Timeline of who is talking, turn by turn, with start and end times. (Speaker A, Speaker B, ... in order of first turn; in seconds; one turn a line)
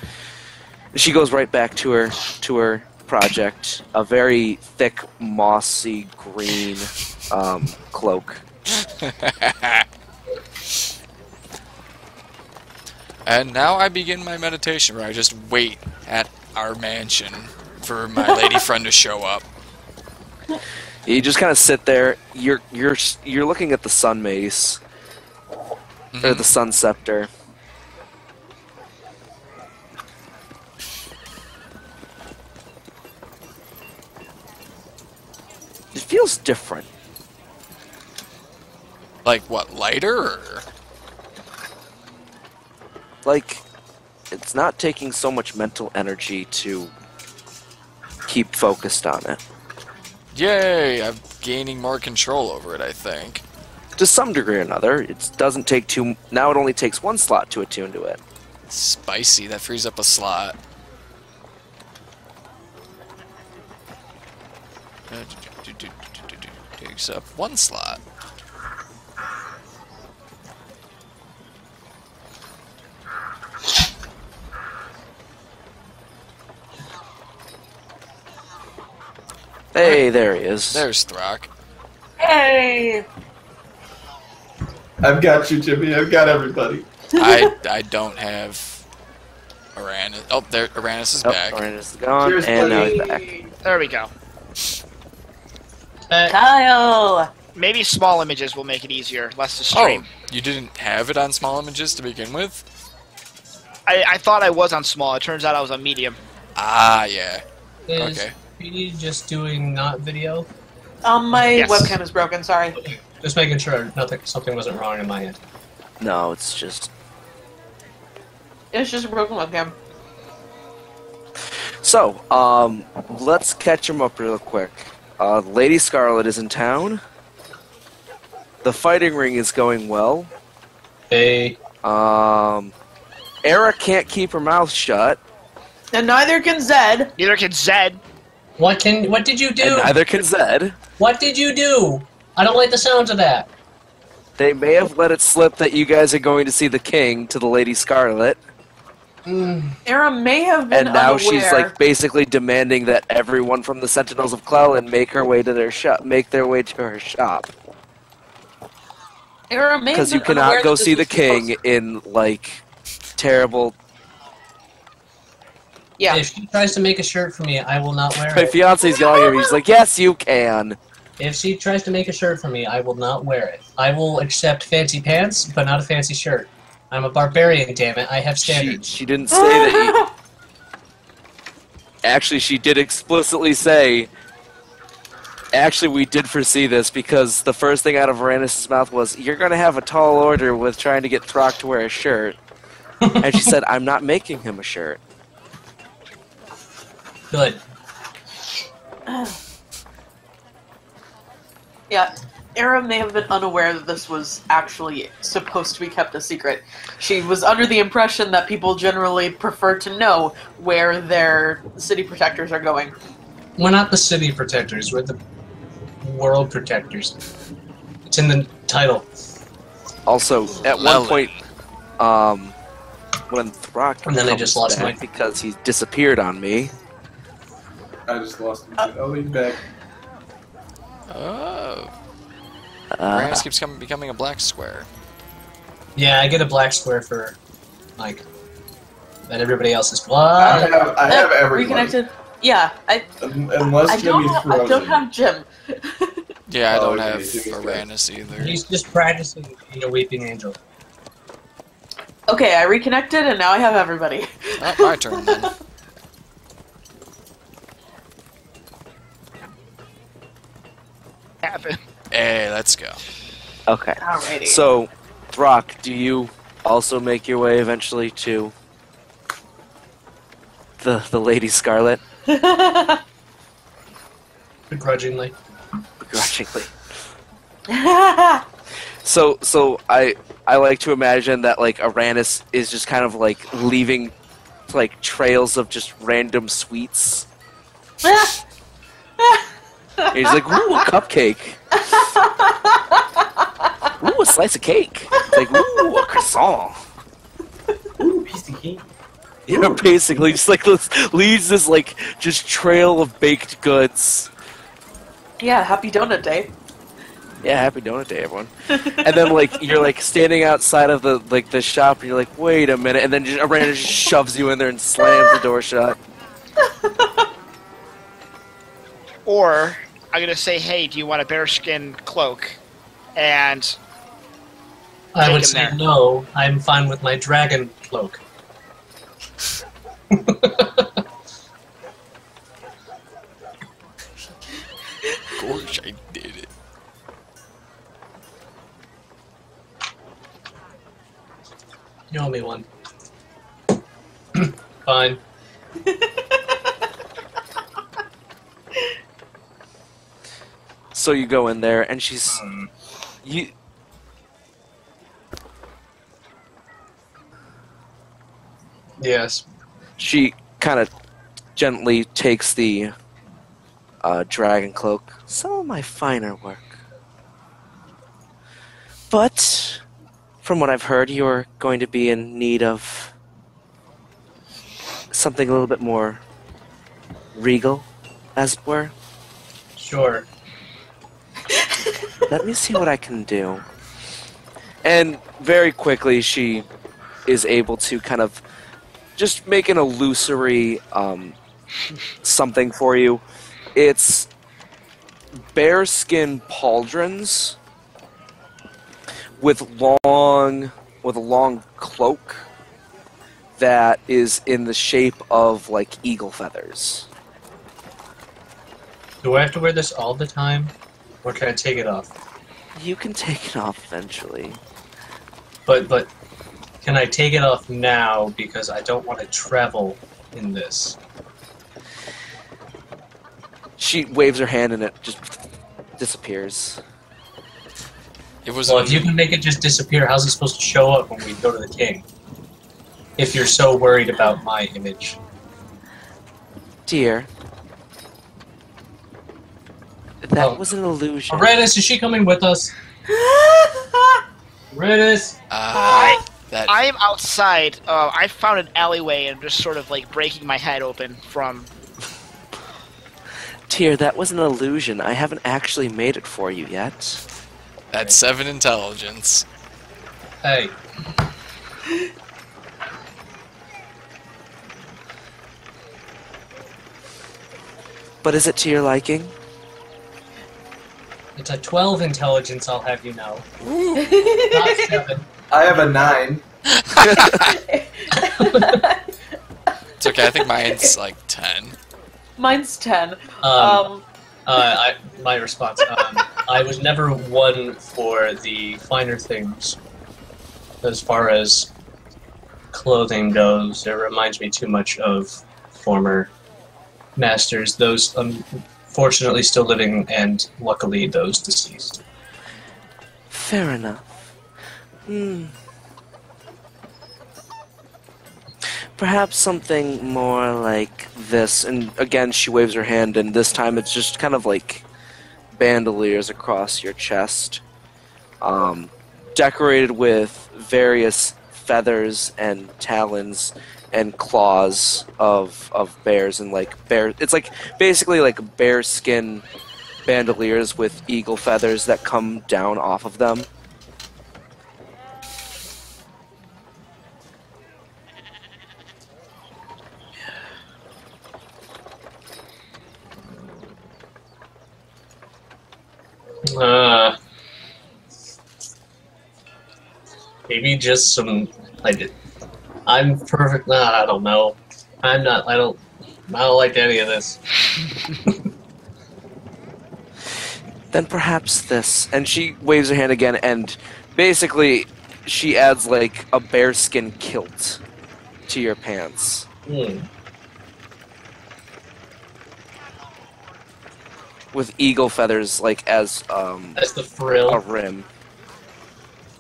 Speaker A: 0.9-8.4
Speaker B: 8.8-9.9
Speaker B: 13.2-19.5
Speaker C: 18.2-18.6
Speaker A: 21.1-24.8
Speaker B: 26.1-26.5
Speaker A: 26.2-27.3
Speaker A: 35.9-36.9
Speaker B: 39.2-40.6
Speaker A: 43.2-43.6
Speaker A: 44.3-46.9
Speaker A: 48.3-49.4
Speaker B: 50.3-53.4
Speaker A: 54.0-58.2
Speaker B: 58.7-60.6
Speaker B: 65.1-68.0
Speaker A: 79.7-80.8
Speaker B: 79.8-80.1
Speaker B: 80.7-81.5
Speaker C: 82.2-83.1
Speaker D: 85.0-86.9
Speaker C: 87.1-87.5
Speaker B: 87.2-88.8
Speaker B: 89.8-91.6
Speaker A: 91.2-93.2
Speaker D: 92.2-93.2
Speaker C: 92.8-93.4
Speaker E: 93.6-94.1
Speaker F: 96.1-96.4
Speaker C: 96.3-97.3
Speaker E: 97.5-100.1
Speaker B: 99.7-102.6
Speaker E: 103.9-106.2
Speaker B: 106.6-107.4
Speaker F: 107.9-110.5
Speaker B: 108.0-108.3
Speaker C: 111.0-112.8
Speaker E: 111.5-111.9
Speaker F: 112.8-115.4
Speaker A: 116.0-116.9
Speaker C: 118.7-119.8
Speaker A: 121.8-127.0
Speaker A: 128.6-130.3
Speaker F: 131.1-131.6
Speaker A: 131.8-132.7
Speaker A: 133.4-135.2
Speaker C: 135.9-137.1
Speaker E: 137.2-138.0
Speaker F: 138.6-139.9
Speaker A: 139.6-140.8
Speaker F: 141.0-143.5
Speaker A: 144.4-148.4
Speaker F: 149.3-149.8
Speaker C: 149.9-151.7
Speaker A: 150.7-157.5
Speaker C: 159.5-161.5
Speaker A: 159.9-162.6
Speaker A: 163.2-163.8
Speaker C: 166.0-166.2
Speaker F: 166.1-168.6
Speaker A: 168.3-170.8
Speaker C: 168.8-169.5
Speaker F: 171.2-178.9
Speaker A: 178.4-180.0
Speaker C: 179.3-180.1
Speaker A: 182.0-184.1
Speaker A: 185.5-192.4
Speaker F: 193.1-193.5
Speaker A: 193.2-195.0
Speaker F: 197.3-197.6
Speaker C: 199.1-199.4
Speaker C: 201.9-212.9
Speaker F: 213.6-215.2
Speaker F: 216.0-217.2
Speaker F: 218.1-219.1
Speaker A: 220.1-221.3
Speaker B: 220.7-221.4
Speaker A: 222.0-222.6
Speaker A: 223.3-226.7
Speaker F: 224.0-225.0
Speaker D: 228.1-229.6
Speaker B: 231.1-231.9
Speaker A: 232.9-233.4
Speaker B: 233.1-234.9
Speaker F: 236.0-237.4
Speaker F: 238.0-238.2
Speaker F: 239.3-241.0
Speaker D: 240.4-241.9
Speaker C: 241.1-243.1
Speaker D: 243.2-245.0
Speaker C: 243.6-246.3
Speaker B: 246.5-248.6
Speaker D: 246.7-247.8
Speaker F: 248.3-250.6
Speaker C: 252.3-255.5
Speaker B: 254.6-255.5
Speaker E: 261.4-261.8
Speaker B: 262.1-263.0
Speaker A: 263.7-268.5
Speaker C: 264.0-264.6
Speaker A: 270.8-272.0
Speaker C: 272.3-273.0
Speaker F: 274.7-275.4
Speaker A: 276.0-276.7
Speaker C: 277.7-278.4
Speaker A: 279.0-284.1
Speaker A: 284.7-287.3
Speaker C: 288.0-288.4
Speaker C: 290.0-290.6
Speaker A: 290.1-291.6
Speaker C: 291.8-293.7
Speaker A: 294.0-296.8
Speaker C: 295.3-295.9
Speaker D: 298.0-298.8
Speaker A: 299.5-304.3
Speaker C: 305.4-306.5
Speaker A: 307.4-316.0
Speaker C: 308.7-309.6
Speaker C: 315.0-315.4
Speaker C: 316.6-317.3
Speaker E: 319.3-322.6
Speaker E: 323.2-323.8
Speaker F: 325.1-328.2
Speaker E: 325.2-325.8
Speaker F: 330.1-331.0
Speaker B: 335.4-336.5
Speaker F: 342.1-342.7
Speaker F: 344.4-345.2
Speaker C: 345.9-346.5
Speaker A: 350.9-352.4
Speaker F: 352.3-352.7
Speaker A: 353.2-353.5
Speaker F: 359.0-359.4
Speaker A: 360.0-360.9
Speaker A: 361.6-362.9
Speaker A: 364.0-366.8
Speaker A: 369.1-369.8
Speaker A: 370.4-373.1
Speaker A: 375.1-376.2
Speaker A: 377.4-378.9
Speaker F: 379.8-380.3
Speaker C: 381.5-382.0
Speaker A: 382.3-383.6
Speaker A: 384.8-386.7
Speaker A: 387.3-388.4
Speaker A: 389.2-391.4
Speaker A: 392.2-393.2
Speaker A: 393.8-394.3
Speaker A: 395.4-397.6
Speaker A: 399.4-402.5
Speaker A: 403.6-407.1
Speaker F: 409.2-412.1
Speaker A: 412.8-414.6
Speaker F: 415.7-416.1
Speaker F: 416.8-421.0
Speaker A: 423.8-425.3
Speaker A: 426.0-426.8
Speaker B: 428.4-429.2
Speaker F: 428.7-432.0
Speaker F: 433.2-435.2
Speaker A: 436.9-437.3
Speaker A: 440.2-441.5
Speaker F: 440.4-440.6
Speaker F: 441.3-442.7
Speaker C: 443.1-444.2
Speaker F: 444.7-445.4
Speaker B: 445.5-446.8
Speaker E: 445.7-451.7
Speaker A: 453.7-457.2
Speaker B: 457.9-459.5
Speaker F: 460.4-460.8
Speaker A: 468.2-469.3
Speaker F: 471.4-473.4
Speaker B: 473.6-474.1
Speaker C: 474.0-475.1
Speaker F: 474.5-475.3
Speaker D: 475.5-476.4
Speaker B: 476.7-477.6
Speaker A: 477.0-477.4
Speaker C: 477.3-479.2
Speaker F: 478.2-478.8
Speaker B: 480.0-481.8
Speaker C: 480.1-480.9
Speaker C: 482.4-484.0
Speaker F: 483.4-483.9
Speaker F: 484.5-489.8
Speaker F: 490.8-491.7
Speaker F: 492.7-496.3
Speaker F: 497.2-502.0
Speaker A: 503.3-504.3
Speaker A: 505.1-505.6
Speaker A: 509.0-514.9
Speaker A: 515.5-517.6
Speaker A: 518.4-529.5
Speaker A: 530.1-533.5
Speaker F: 546.5-547.2
Speaker F: 550.5-552.1
Speaker F: 552.9-557.4
Speaker A: 560.9-567.8
Speaker A: 568.5-569.5
Speaker F: 569.7-570.1
Speaker A: 574.5-576.8
Speaker F: 576.8-577.6
Speaker A: 577.5-578.1